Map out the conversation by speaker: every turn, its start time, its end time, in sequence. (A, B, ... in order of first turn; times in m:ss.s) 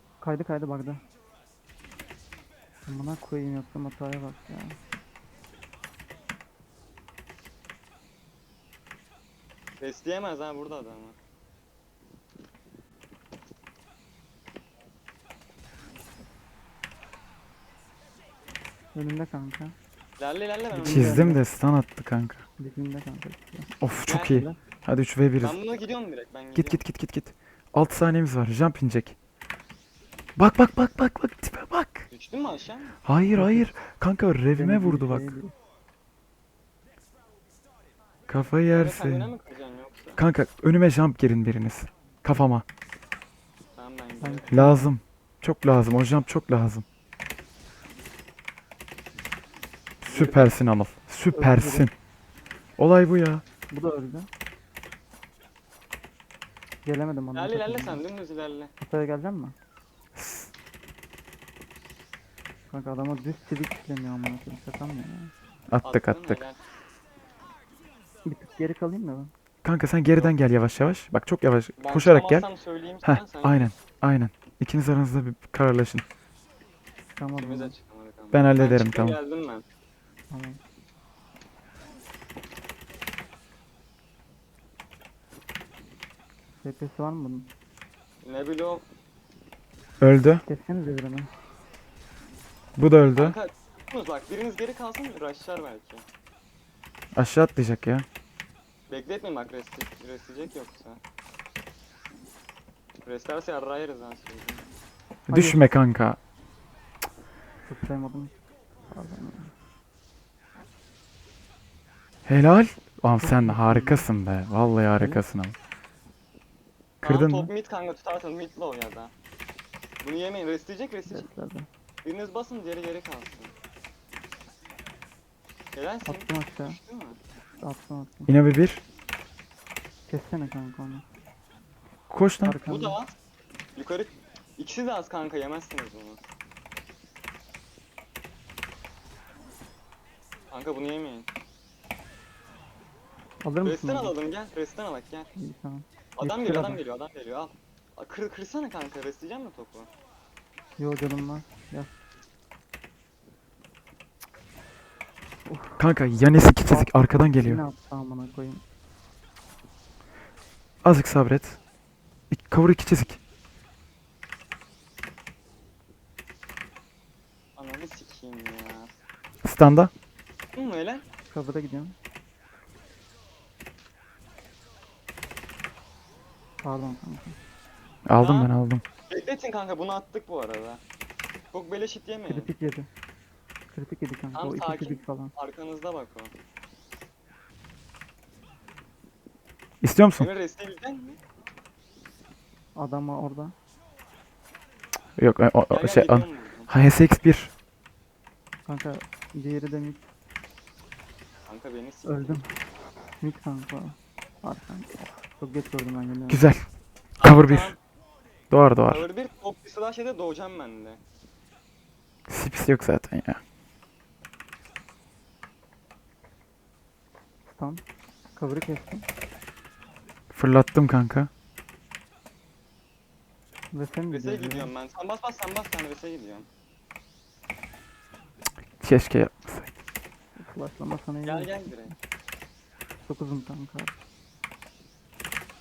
0:00.2-0:01.0 A
0:02.9-0:04.8 A
0:09.8-0:11.2 B
0:18.9-0:19.8 A
0:20.2-0:21.2 B
0:20.7-0:21.4 A
0:20.8-0:22.4 C
0:22.6-0:23.8 A
0:23.8-0:25.6 C
0:24.1-0:24.5 B
0:24.3-0:24.6 A
0:25.4-0:26.8 B
0:26.6-0:29.2 C
0:30.4-0:32.1 C
0:32.1-0:33.0 B
0:33.0-0:35.4 C
0:33.3-0:33.7 A
0:34.6-0:35.5 A
0:38.3-0:39.3 C
0:38.6-0:40.2 B
0:40.2-0:42.6 C
0:43.8-0:44.7 B
0:44.2-0:44.9 A
0:44.5-0:46.8 C
0:50.0-0:51.9 C
0:50.1-0:50.5 A
0:51.3-0:51.9 A
0:52.8-0:53.4 C
0:53.7-0:54.3 A
0:56.8-0:58.0 A
0:57.3-0:58.7 B
0:58.8-0:59.6 A
1:00.2-1:00.5 C
1:02.7-1:05.3 A
1:05.7-1:06.4 C
1:05.8-1:06.6 B
1:08.2-1:09.3 A
1:09.6-1:12.5 C
1:11.8-1:13.7 B
1:13.0-1:16.0 C
1:17.2-1:17.7 A
1:17.4-1:19.6 B
1:18.3-1:19.2 C
1:20.3-1:20.6 A
1:26.6-1:27.5 A
1:28.2-1:28.8 B
1:30.0-1:30.4 C
1:30.4-1:31.3 A
1:32.8-1:33.4 C
1:33.2-1:36.0 B
1:37.1-1:38.1 C
1:38.9-1:41.0 B
1:43.0-1:44.7 B
1:45.3-1:46.2 C
1:45.3-1:45.7 A
1:47.7-1:48.4 A
1:48.9-1:49.5 A
1:52.3-1:55.6 C
1:53.2-1:54.1 A
1:55.0-1:55.2 A
1:57.0-1:57.5 C
1:57.0-1:59.1 B
2:00.0-2:01.3 B
2:01.1-2:01.7 A
2:02.0-2:03.5 B
2:05.8-2:07.2 B
2:06.0-2:06.8 A
2:07.6-2:08.3 A
2:08.3-2:08.8 C
2:10.1-2:11.1 A
2:12.1-2:12.6 C
2:12.4-2:13.0 A
2:12.6-2:13.2 B
2:13.8-2:16.2 B
2:20.5-2:21.3 B
2:23.4-2:24.1 A
2:23.6-2:25.3 B
2:25.4-2:26.8 A
2:26.2-2:29.9 B
2:30.8-2:31.9 A
2:35.5-2:35.8 A
2:35.8-2:37.6 C
2:36.6-2:38.6 A
2:40.8-2:41.6 C
2:42.3-2:43.2 C
2:47.6-2:48.9 B
2:49.4-2:49.9 C
2:50.5-2:51.0 B
2:51.3-2:52.0 A
2:56.6-2:57.4 A
2:58.1-2:58.8 C
2:58.2-2:58.5 B
2:59.1-3:00.8 B
3:01.5-3:02.5 B
3:02.3-3:02.9 A
3:03.7-3:05.3 A
3:04.3-3:06.3 B
3:09.8-3:10.3 C
3:10.2-3:11.2 B
3:12.8-3:13.5 A
3:15.2-3:17.5 C
3:15.7-3:16.7 B
3:18.7-3:20.1 A
3:21.5-3:22.4 B
3:22.0-3:22.5 A
3:23.1-3:26.4 A
3:26.3-3:26.7 C
3:27.2-3:27.8 B
3:27.2-3:27.8 C
3:28.5-3:29.1 C
3:28.8-3:31.0 B
3:32.3-3:33.4 C
3:37.4-3:37.8 A
3:38.4-3:39.1 A
3:40.3-3:41.3 C
3:43.7-3:44.7 A
3:44.1-3:46.5 B
3:48.8-3:49.7 C
3:50.4-3:51.9 A
3:51.2-3:52.0 B
3:53.0-3:54.0 A